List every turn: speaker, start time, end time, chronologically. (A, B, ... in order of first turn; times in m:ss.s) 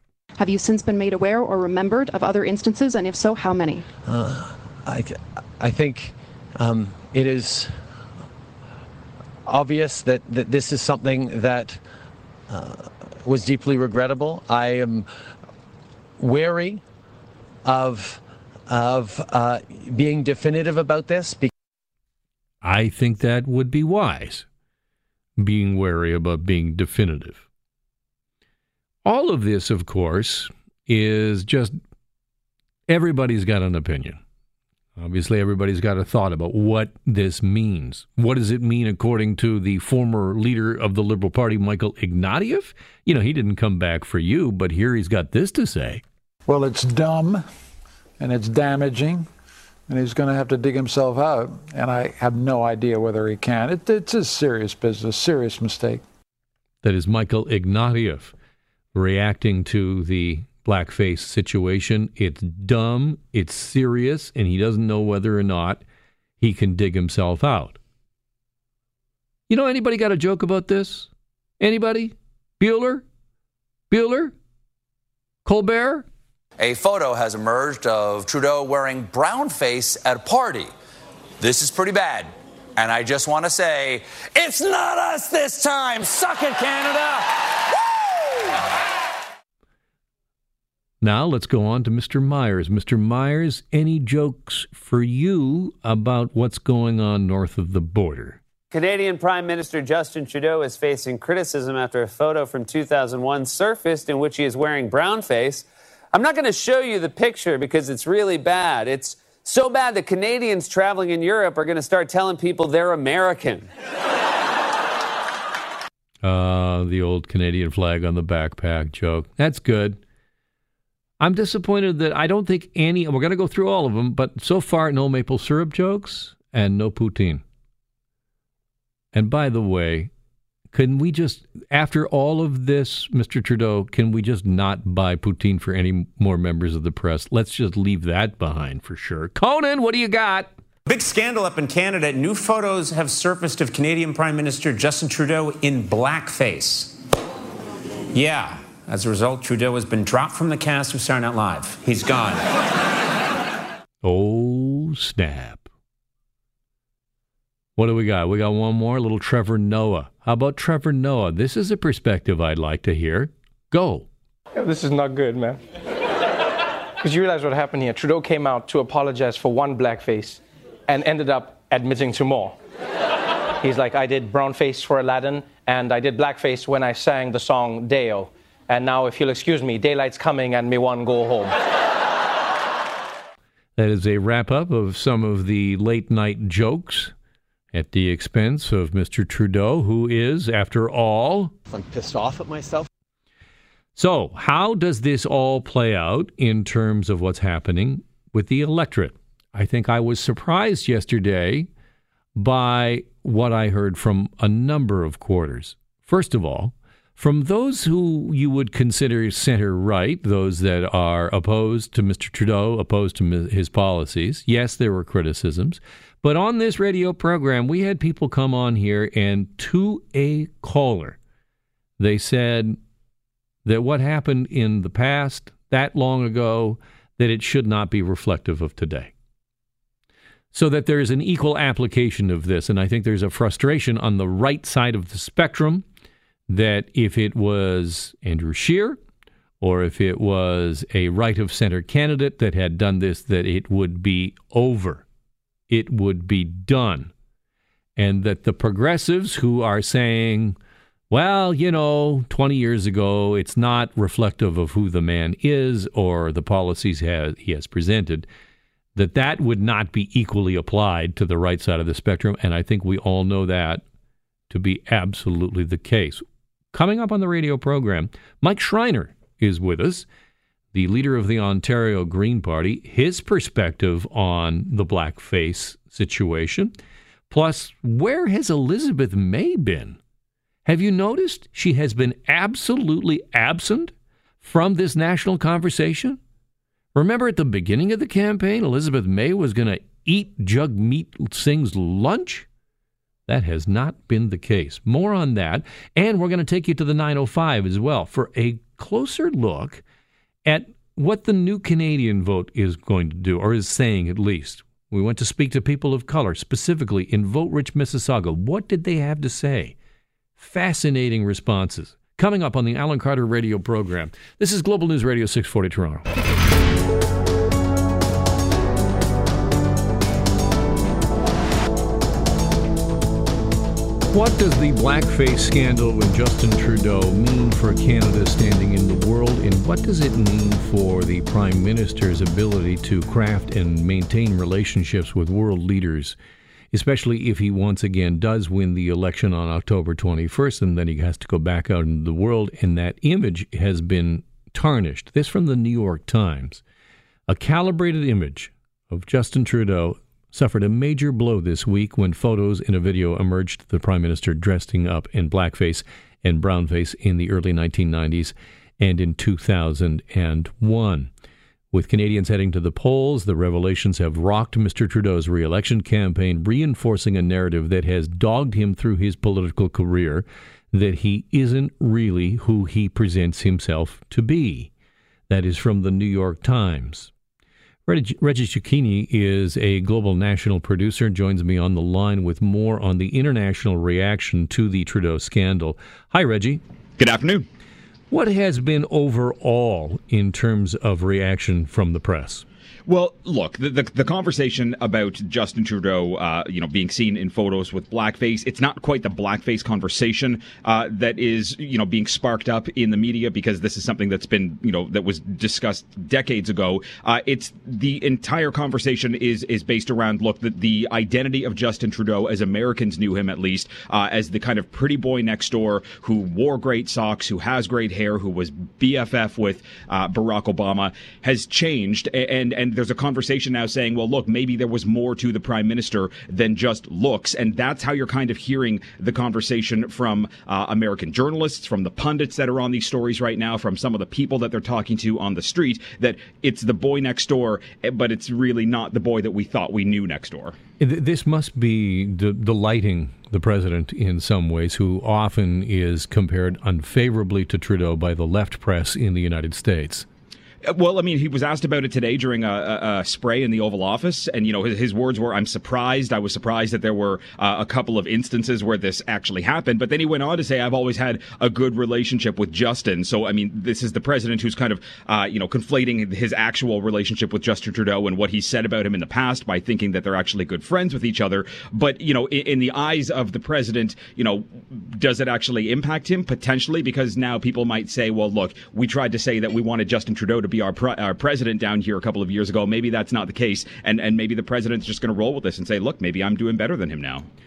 0:00.4-0:03.8 A
0:04.1-0:07.9 B
0:09.4-0:11.8 B
0:12.5-0:15.1 B
0:16.2-0:16.8 B
0:17.6-0:21.5 B
0:22.6-0:24.4 C
0:25.4-0:27.4 C
0:29.0-0:31.8 C
0:32.9-0:34.2 C
0:35.0-0:46.0 C
0:46.5-0:47.4 D
0:48.2-0:49.3 D
0:49.9-0:56.0 D
0:56.8-0:58.3 C
0:58.9-1:05.8 C
1:06.4-1:07.8 C
1:09.5-1:13.0 C
1:13.9-1:14.3 C
1:15.4-1:16.1 C
1:16.6-1:20.7 E
1:21.4-1:28.4 E
1:31.0-1:38.4 C
1:38.7-1:53.7 F
1:56.2-2:00.0 C
2:01.2-2:07.4 C
2:09.1-2:10.1 C
2:10.7-2:20.5 C
2:20.9-2:27.0 G
2:28.1-2:32.5 G
2:34.0-2:35.7 C
2:37.8-2:44.1 C
2:44.6-2:45.6 H
2:47.0-2:52.6 H
2:53.6-3:01.6 H
3:03.8-3:07.1 C
3:07.7-3:11.5 C
3:11.7-3:12.9 B
3:14.0-3:21.7 C
3:22.4-3:41.2 C
3:42.0-3:42.8 C
3:43.6-3:49.1 C
3:50.5-3:55.8 C
3:56.5-3:59.0 C
3:59.6-4:05.0 C
4:05.7-4:07.1 C
4:08.0-4:10.6 C
4:11.1-4:18.3 C
4:18.9-4:23.8 C
4:24.5-4:26.2 C
4:26.7-4:30.1 C
4:30.7-4:36.7 C
4:37.3-4:40.0 C
4:40.7-4:46.2 C
4:46.9-4:52.5 C
4:53.3-4:59.8 C
5:00.4-5:09.8 C
5:10.4-5:16.0 C
5:24.1-5:36.2 C
5:36.7-5:46.6 C
5:47.3-6:01.1 C
6:01.7-6:14.7 C
6:15.3-6:17.1 C
6:17.9-6:26.6 C
6:27.0-6:27.4 I
6:28.1-6:32.4 C
6:32.9-7:20.6 I
7:20.8-7:30.1 C
7:30.6-8:07.3 I